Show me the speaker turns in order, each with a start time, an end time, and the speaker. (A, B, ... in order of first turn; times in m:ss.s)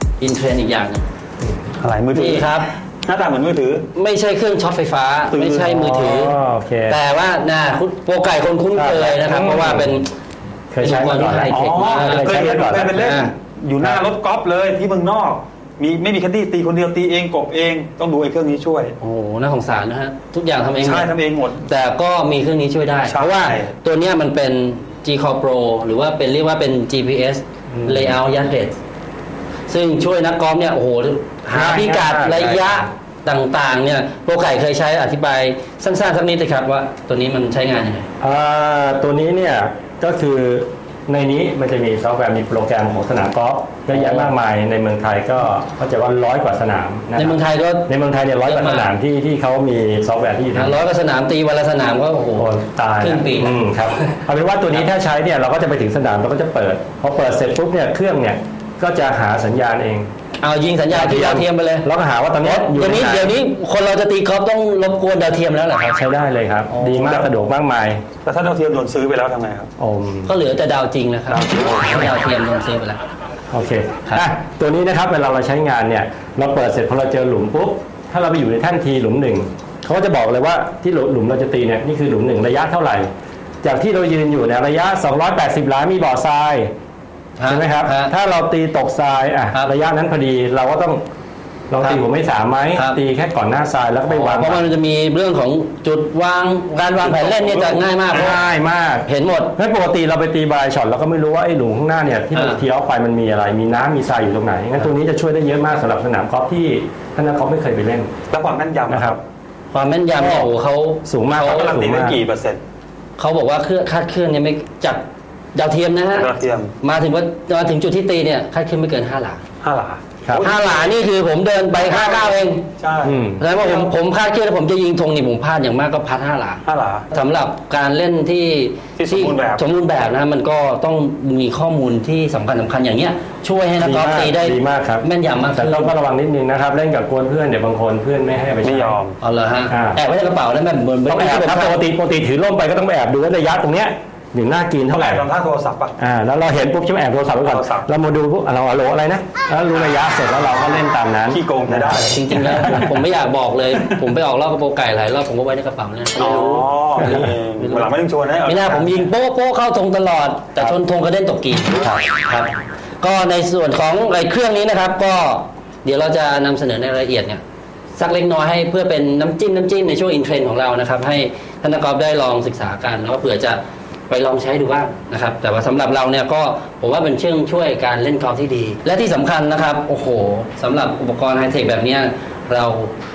0:00.2-0:01.0 A
0:01.8-0:03.8 B
0:02.1-0:02.7 A
0:04.0-0:06.4 A
0:05.4-0:07.0 C
0:06.9-0:10.1 A
0:08.8-0:10.0 C
0:10.7-0:13.0 C
0:10.8-0:13.3 A
0:11.5-0:18.9 B
0:19.0-0:28.8 A
0:20.8-0:21.6 B
0:23.0-0:23.7 B
0:27.7-0:28.2 C
0:29.7-0:38.1 A
0:31.5-0:32.9 C
0:38.2-0:50.8 C
0:43.9-0:44.4 A
0:47.2-0:47.9 A
0:48.4-0:48.9 A
0:50.5-0:53.6 A
0:52.4-1:00.1 C
1:00.4-1:01.9 A
1:00.9-1:03.4 C
1:02.4-1:06.0 A
1:05.9-1:08.0 C
1:06.8-1:07.1 A
1:07.0-1:07.2 B
1:08.2-1:09.7 B
1:09.8-1:10.3 C
1:10.2-1:13.0 A
1:11.3-1:11.8 B
1:13.5-1:23.1 C
1:23.6-1:26.7 C
1:27.4-1:28.1 A
1:27.5-1:31.0 C
1:31.7-1:34.6 C
1:31.8-1:32.0 A
1:32.7-1:33.0 A
1:34.1-1:38.4 A
1:36.9-1:48.1 C
1:39.1-1:39.6 A
1:42.3-1:42.6 A
1:48.3-1:49.2 B
1:48.9-1:49.2 C
1:49.7-1:51.8 A
1:50.1-1:50.5 C
1:51.0-1:52.2 C
1:51.4-1:52.6 B
1:53.2-1:59.4 A
1:56.1-1:56.7 B
1:59.6-2:00.9 B
2:00.4-2:02.6 A
2:01.8-2:03.9 B
2:03.0-2:03.4 C
2:03.4-2:15.9 A
2:06.6-2:07.1 B
2:09.0-2:09.6 B
2:13.8-2:19.0 C
2:18.6-2:19.2 B
2:19.2-2:21.8 A
2:19.7-2:20.0 C
2:21.1-2:25.2 C
2:24.9-2:26.0 B
2:26.0-2:32.0 C
2:27.4-2:27.9 B
2:31.3-2:32.8 B
2:31.9-2:37.9 A
2:36.2-2:39.0 B
2:38.4-2:47.4 A
2:41.8-2:42.0 C
2:48.0-3:02.9 A